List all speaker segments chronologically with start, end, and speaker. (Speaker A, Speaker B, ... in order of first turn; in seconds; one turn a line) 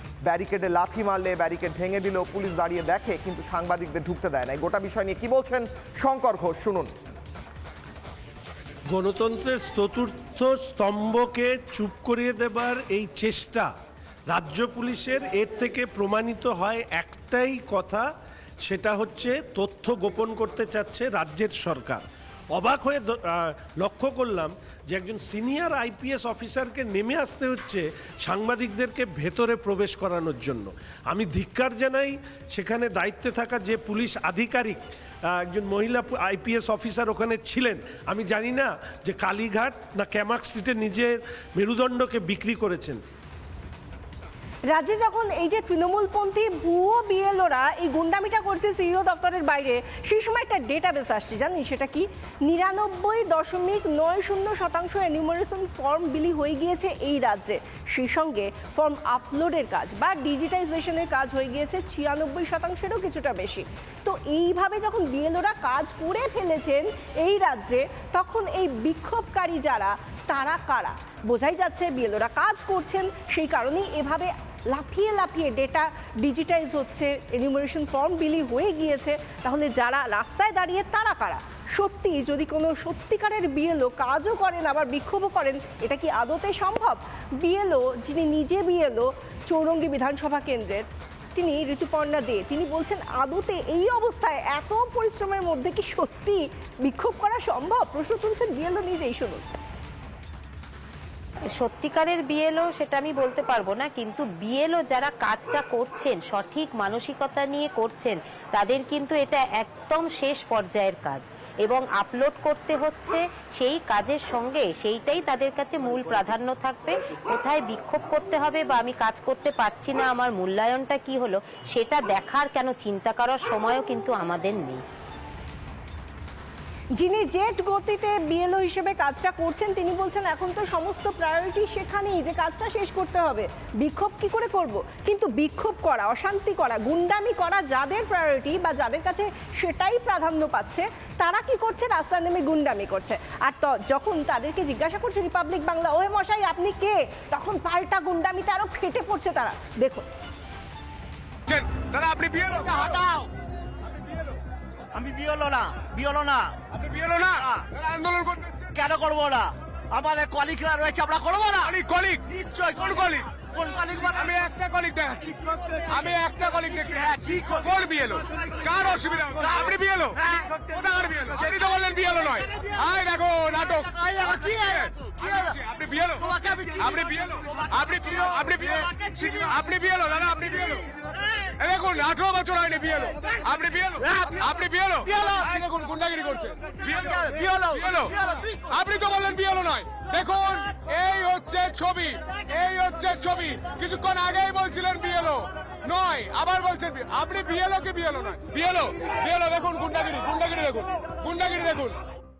Speaker A: 0.2-6.9
Speaker B: 8.9-13.7
Speaker B: 14.3-18.1
Speaker B: 18.6-34.8
Speaker B: 35.4-43.0
Speaker C: 44.7-99.4
Speaker D: 101.5-124.8
Speaker C: 127.0-150.1
Speaker E: 151.5-152.6
Speaker F: 152.7-153.1
Speaker F: 154.9-156.5
Speaker F: 158.7-161.7
Speaker E: 161.8-162.1
Speaker F: 162.3-164.3
Speaker E: 164.7-165.2
Speaker E: 166.2-166.8
Speaker F: 167.1-167.7
Speaker E: 169.8-170.0
Speaker E: 171.0-173.8
Speaker F: 174.0-174.7
Speaker E: 175.7-176.0
Speaker F: 176.3-176.7
Speaker E: 177.7-178.2
Speaker E: 179.7-180.6
Speaker E: 181.7-183.8
Speaker F: 185.1-185.5
Speaker E: 185.8-186.4
Speaker F: 187.1-187.8
Speaker E: 188.8-195.3
Speaker E: 195.9-201.6